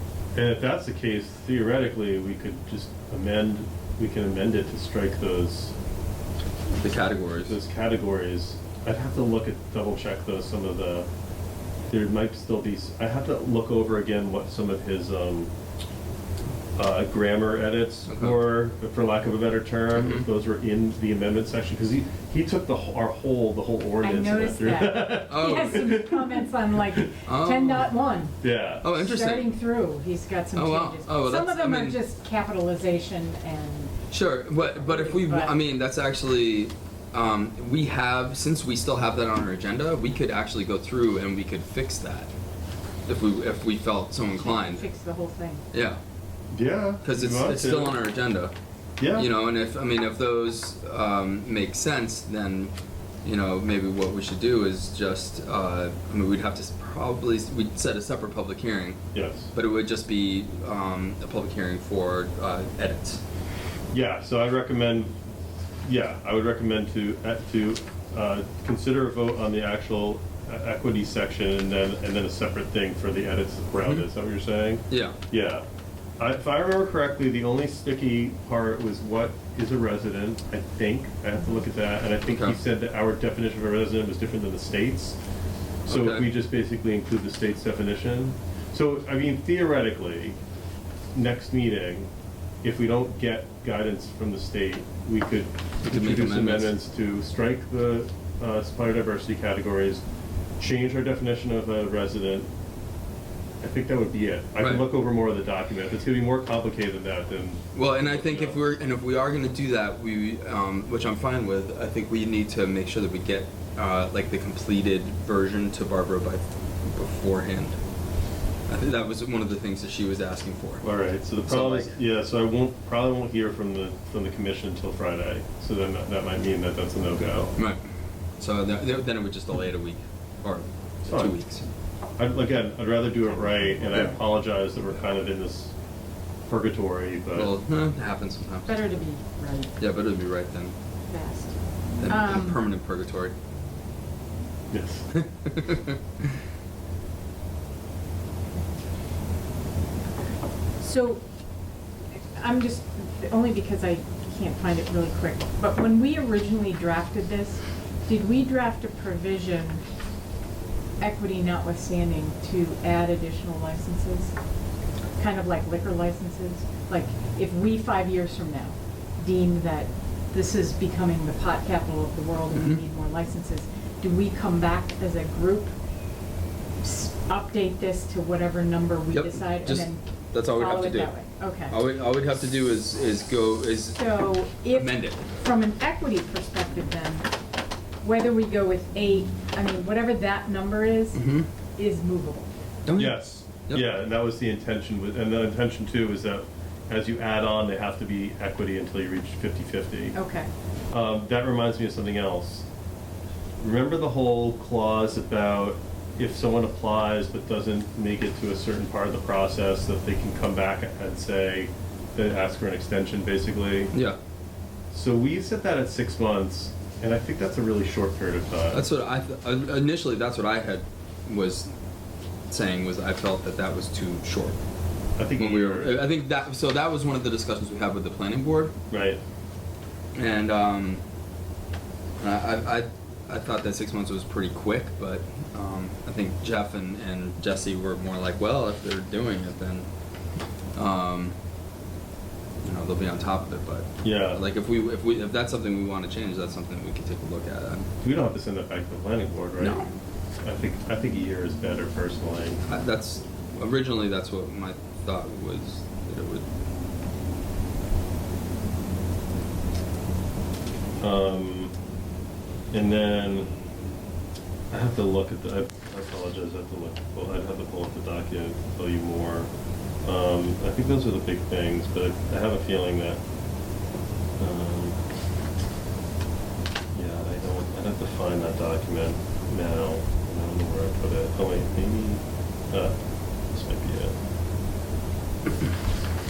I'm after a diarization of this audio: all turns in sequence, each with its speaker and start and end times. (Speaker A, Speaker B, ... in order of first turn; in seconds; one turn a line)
Speaker A: 0.3-5.7
Speaker B: 6.7-7.6
Speaker A: 7.4-11.1
Speaker A: 11.9-15.5
Speaker A: 16.8-27.0
Speaker B: 18.1-18.4
Speaker B: 19.9-20.2
Speaker C: 24.0-33.9
Speaker B: 25.3-25.9
Speaker B: 27.2-27.9
Speaker A: 28.4-28.9
Speaker B: 28.8-29.4
Speaker B: 30.5-32.0
Speaker B: 34.1-42.3
Speaker C: 34.5-35.5
Speaker B: 43.1-44.8
Speaker C: 44.3-45.6
Speaker B: 45.7-46.0
Speaker A: 46.5-48.0
Speaker B: 47.0-48.5
Speaker A: 49.0-49.3
Speaker B: 49.1-59.0
Speaker A: 59.1-59.5
Speaker B: 59.5-63.2
Speaker A: 63.9-65.1
Speaker A: 65.8-75.6
Speaker B: 73.8-74.1
Speaker B: 74.9-75.2
Speaker A: 76.2-85.2
Speaker B: 82.2-82.6
Speaker A: 85.8-90.4
Speaker B: 85.9-86.3
Speaker A: 91.1-92.1
Speaker A: 92.6-100.0
Speaker B: 95.9-96.7
Speaker A: 100.6-102.5
Speaker A: 103.6-108.6
Speaker B: 104.6-104.9
Speaker B: 107.7-117.8
Speaker B: 118.7-120.8
Speaker A: 120.8-127.5
Speaker B: 121.4-122.0
Speaker B: 128.4-131.7
Speaker A: 131.0-131.4
Speaker A: 132.2-135.8
Speaker C: 133.3-134.2
Speaker A: 136.5-137.5
Speaker B: 137.3-139.0
Speaker C: 138.6-139.7
Speaker B: 139.8-140.7
Speaker C: 141.1-141.6
Speaker B: 142.0-143.3
Speaker C: 142.1-142.6
Speaker A: 144.7-145.1
Speaker B: 145.1-146.3
Speaker C: 150.8-151.2
Speaker C: 152.3-159.8
Speaker C: 161.0-164.3
Speaker C: 165.2-175.7
Speaker B: 172.5-172.8
Speaker C: 176.8-180.0
Speaker B: 179.1-181.1
Speaker C: 180.5-181.8
Speaker B: 181.7-184.0
Speaker C: 183.9-187.3
Speaker B: 184.7-185.3
Speaker C: 188.0-191.2
Speaker B: 191.1-191.5
Speaker C: 191.8-192.5
Speaker B: 192.8-193.8
Speaker A: 192.9-200.2
Speaker C: 200.1-200.5
Speaker A: 200.9-202.7
Speaker A: 203.6-213.9
Speaker B: 213.9-214.2
Speaker A: 214.9-218.8
Speaker B: 218.7-221.7
Speaker B: 222.5-224.6
Speaker A: 225.2-226.0
Speaker B: 225.4-228.7
Speaker A: 228.9-229.2
Speaker B: 230.1-231.0
Speaker B: 232.2-239.9
Speaker B: 240.8-241.3
Speaker B: 242.6-247.9
Speaker A: 244.0-244.4
Speaker A: 248.0-249.8
Speaker B: 249.6-249.9
Speaker A: 250.4-252.6
Speaker B: 252.7-256.4
Speaker A: 261.0-261.7
Speaker A: 262.7-263.5
Speaker A: 264.7-269.5
Speaker A: 270.0-273.2
Speaker A: 274.4-275.0
Speaker A: 276.9-284.1